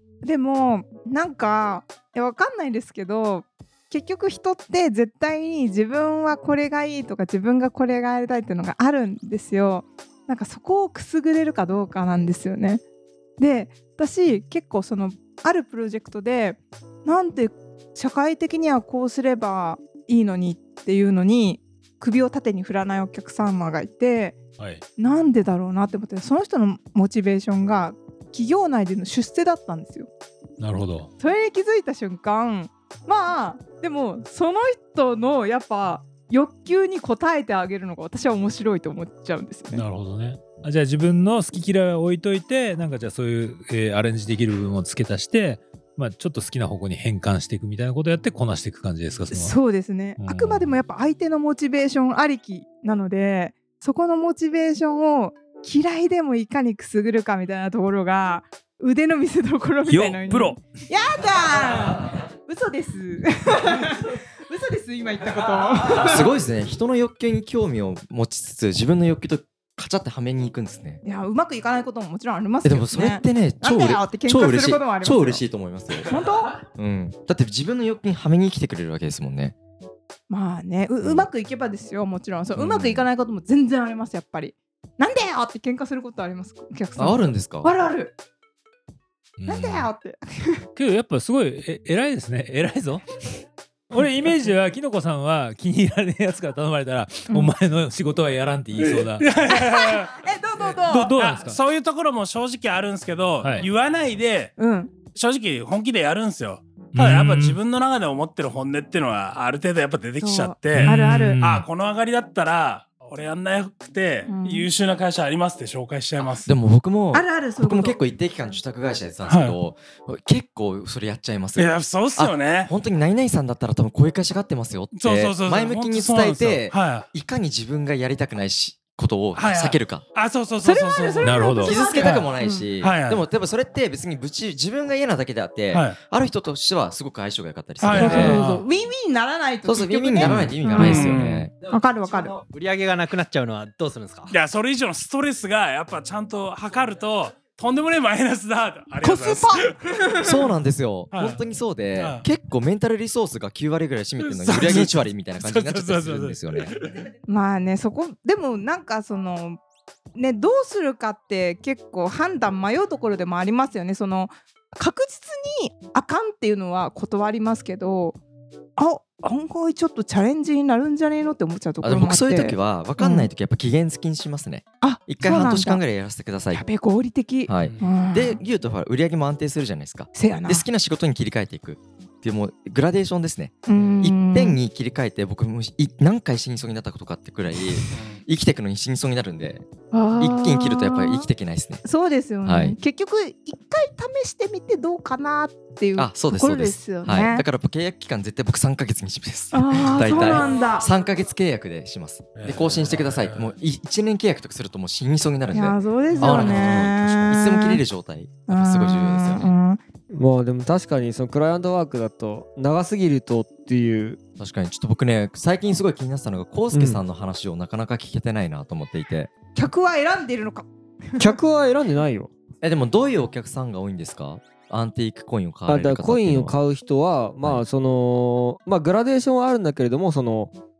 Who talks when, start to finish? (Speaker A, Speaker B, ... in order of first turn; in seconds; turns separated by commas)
Speaker A: 0.2-12.8, Speaker A: 13.4-24.4, Speaker A: 25.0-30.1, Speaker B: 30.6-31.1, Speaker A: 31.2-39.8, Speaker B: 39.7-49.6, Speaker A: 49.3-66.3, Speaker B: 50.2-50.8, Speaker B: 59.8-60.6, Speaker C: 66.0-71.0, Speaker A: 71.0-75.4, Speaker C: 72.6-76.1, Speaker A: 76.0-76.6, Speaker C: 76.7-79.5, Speaker A: 80.3-88.1, Speaker C: 81.0-81.3, Speaker C: 82.5-83.1, Speaker C: 87.0-87.7, Speaker B: 89.4-89.9, Speaker A: 89.5-90.6, Speaker B: 90.8-93.0, Speaker B: 93.9-99.4, Speaker A: 97.3-97.5, Speaker D: 98.8-100.2, Speaker A: 99.5-101.2, Speaker B: 100.6-101.6, Speaker D: 101.2-104.5, Speaker B: 103.4-103.7, Speaker A: 104.6-104.9, Speaker D: 105.1-116.5, Speaker B: 106.9-107.6, Speaker A: 110.2-111.4, Speaker B: 110.7-111.7, Speaker A: 114.3-114.7, Speaker C: 116.4-130.0, Speaker A: 117.1-118.0, Speaker D: 119.2-119.6, Speaker D: 121.6-122.7, Speaker D: 124.9-127.1, Speaker D: 129.3-131.4, Speaker A: 130.6-132.7, Speaker B: 131.2-131.7, Speaker C: 131.6-138.4, Speaker D: 132.0-132.3, Speaker D: 132.8-133.2, Speaker D: 137.8-138.6, Speaker A: 137.9-141.1, Speaker C: 139.6-141.5, Speaker B: 140.2-140.5, Speaker D: 140.8-141.5, Speaker A: 141.7-142.4, Speaker E: 142.1-144.3, Speaker D: 144.3-150.2, Speaker A: 149.0-150.4, Speaker C: 150.2-156.7, Speaker D: 151.1-151.4, Speaker D: 151.9-152.2, Speaker D: 154.2-157.0, Speaker A: 157.3-159.6, Speaker A: 160.1-168.2, Speaker A: 168.8-173.3, Speaker C: 171.8-176.6, Speaker A: 174.8-175.8, Speaker A: 176.5-178.4, Speaker C: 177.5-191.8, Speaker A: 180.1-180.6, Speaker A: 183.7-184.6, Speaker D: 187.9-188.2, Speaker A: 189.9-191.3, Speaker A: 191.8-197.4, Speaker C: 192.4-192.8, Speaker C: 195.9-209.5, Speaker A: 199.5-200.9, Speaker D: 202.3-203.5, Speaker A: 205.5-207.8, Speaker F: 206.1-206.4, Speaker A: 208.5-209.8, Speaker F: 210.1-214.2, Speaker C: 214.4-219.3, Speaker F: 216.7-217.0, Speaker A: 219.5-221.3, Speaker F: 221.2-222.3, Speaker C: 222.6-226.6, Speaker F: 225.7-230.5